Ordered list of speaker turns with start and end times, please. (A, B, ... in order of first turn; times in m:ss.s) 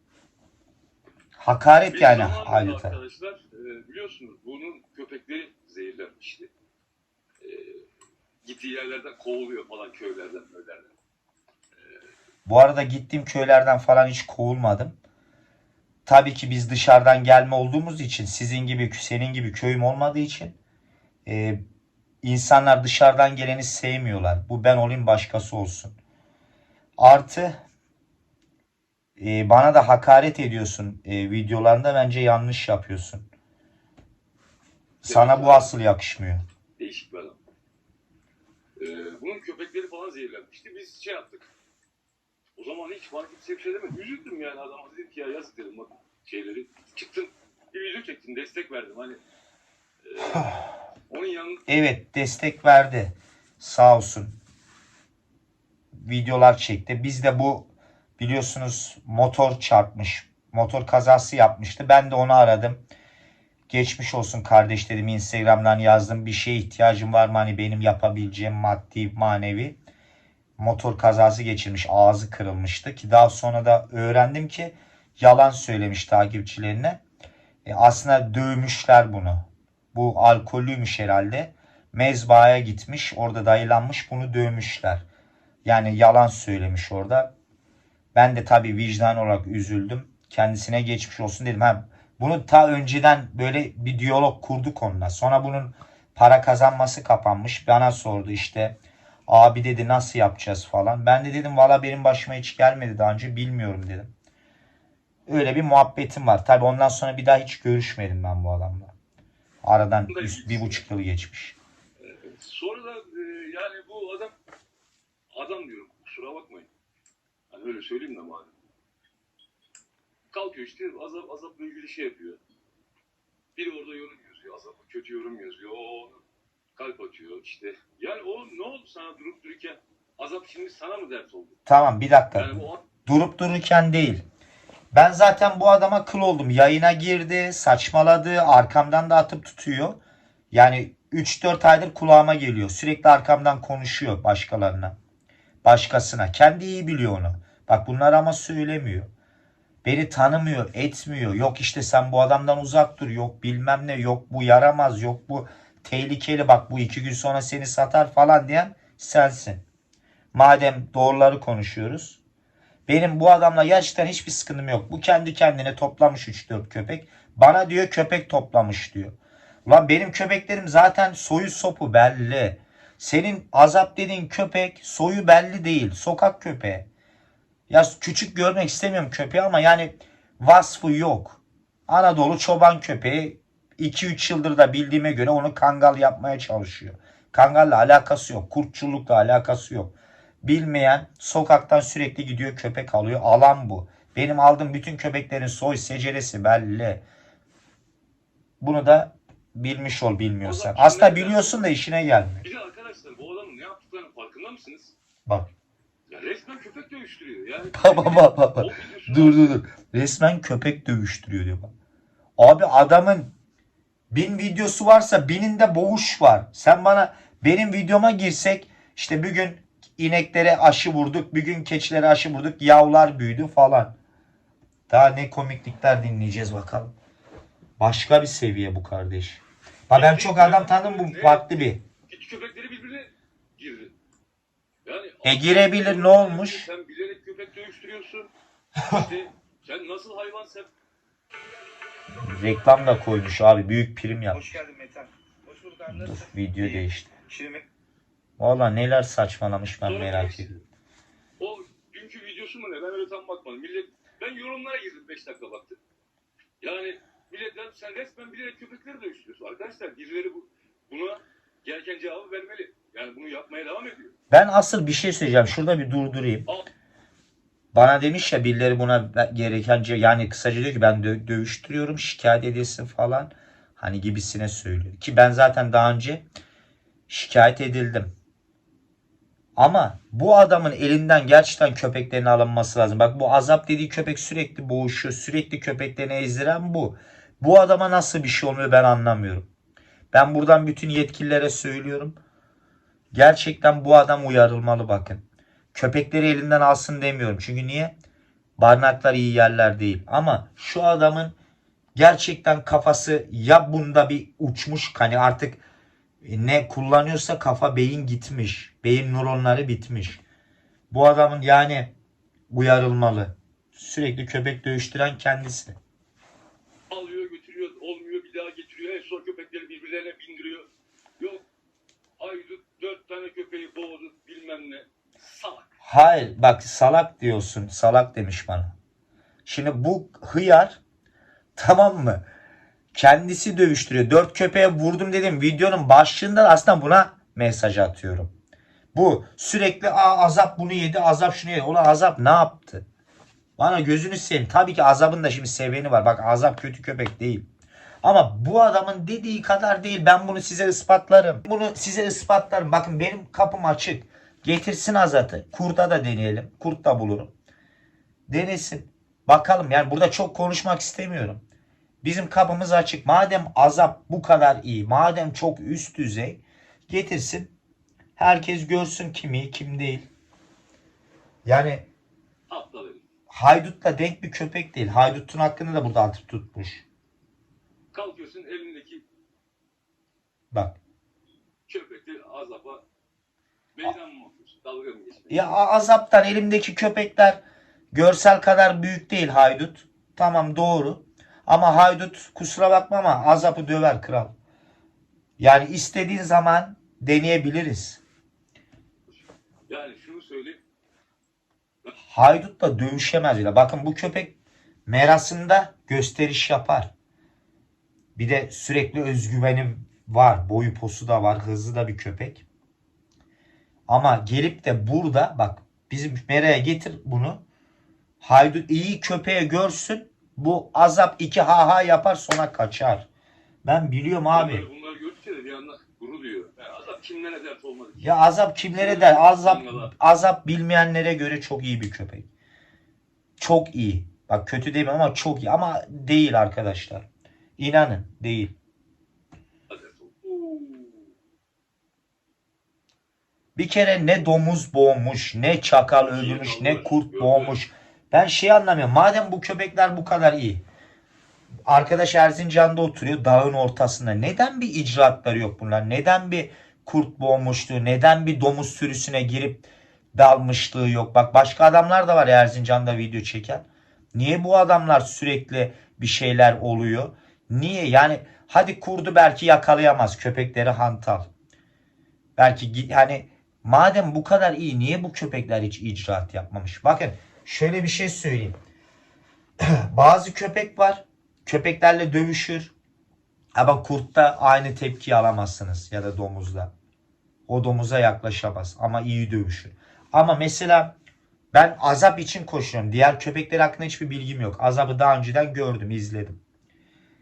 0:01.4-0:03.0 A
0:01.9-0:06.5 B
0:07.4-0:07.8 B
0:08.4-0:11.0 B
0:12.5-0:15.0 A
0:16.1-0:20.6 A
0:21.3-0:21.6 A
0:22.2-0:26.0 A
0:27.0-0:27.6 A
0:29.2-0:33.3 A
0:35.0-0:36.4 A
0:35.0-0:35.7 B
0:36.8-0:37.4 B
0:38.8-0:41.5 B
0:42.6-0:49.2 B
0:50.0-0:51.6 B
0:51.7-0:54.4 A
0:55.9-1:02.8 A
1:03.7-1:09.8 A
1:10.6-1:17.0 A
1:17.6-1:25.0 A
1:25.6-1:27.3 A
1:28.2-1:38.8 A
1:39.3-1:44.1 A
1:45.3-1:48.9 A
1:49.6-1:51.6 A
1:50.1-1:50.8 B
1:52.0-1:54.3 B
1:55.4-1:56.7 B
1:57.5-1:58.6 B
2:00.3-2:02.4 B
2:03.6-2:06.2 B
2:06.8-2:11.6 B
2:11.7-2:14.2 A
2:12.4-2:12.8 B
2:14.9-2:20.0 A
2:20.5-2:25.0 A
2:25.6-2:29.1 A
2:29.8-2:39.6 A
2:40.3-2:42.2 A
2:42.9-2:56.9 A
2:57.7-3:17.0 A
3:18.6-3:22.4 A
3:20.4-3:21.7 B
3:22.4-3:25.0 B
3:26.1-3:29.6 B
3:27.7-3:31.7 A
3:32.4-3:33.3 A
3:34.1-3:44.0 A
3:44.9-3:46.9 A
3:47.8-3:51.8 A
3:49.9-3:53.9 B
3:54.8-3:58.3 B
3:55.2-3:56.7 A
3:58.9-4:00.7 B
4:02.2-4:04.4 A
4:04.3-4:07.6 C
4:05.9-4:07.1 A
4:08.4-4:10.6 A
4:09.8-4:10.6 B
4:11.4-4:15.8 B
4:16.6-4:24.1 B
4:24.3-4:26.5 A
4:27.7-4:36.2 A
4:37.1-4:38.1 A
4:39.6-4:49.5 A
4:50.1-4:52.2 A
4:53.1-4:55.2 A
4:55.7-4:57.9 A
4:58.6-5:01.4 A
5:02.0-5:05.6 A
5:06.2-5:10.2 A
5:10.9-5:11.9 A
5:12.5-5:15.8 A
5:16.9-5:21.4 B
5:22.2-5:25.7 B
5:25.8-5:28.8 A
5:29.5-5:30.8 A
5:31.6-5:32.2 A
5:32.9-5:38.3 A
5:38.9-5:42.8 A
5:43.6-5:47.5 A
5:48.0-5:57.3 A
5:58.3-6:01.4 A
6:02.0-6:07.6 A
6:08.2-6:10.1 A
6:11.4-6:11.9 A
6:12.5-6:13.0 B
6:13.3-6:16.8 A
6:17.9-6:19.0 B
6:20.5-6:20.8 A
6:21.7-6:22.8 B
6:23.8-6:25.6 B
6:25.3-6:27.4 A
6:27.9-6:34.3 A
6:35.4-6:38.0 A
6:39.7-6:40.6 B
6:42.0-6:44.4 A
6:44.9-6:46.9 A
6:48.2-6:52.4 A
6:53.9-6:57.4 A
6:58.2-7:03.1 A
7:03.6-7:04.7 A
7:04.3-7:08.2 B
7:08.0-7:12.3 A
7:08.8-7:09.9 B
7:13.4-7:17.1 A
7:17.6-7:18.5 A
7:19.7-7:21.1 B
7:23.6-7:30.6 A
7:26.0-7:27.6 B
7:31.7-7:51.3 A
7:52.4-7:58.6 A
7:59.6-8:02.7 A
8:03.6-8:06.7 A
8:07.5-8:11.0 A
8:11.5-8:16.4 A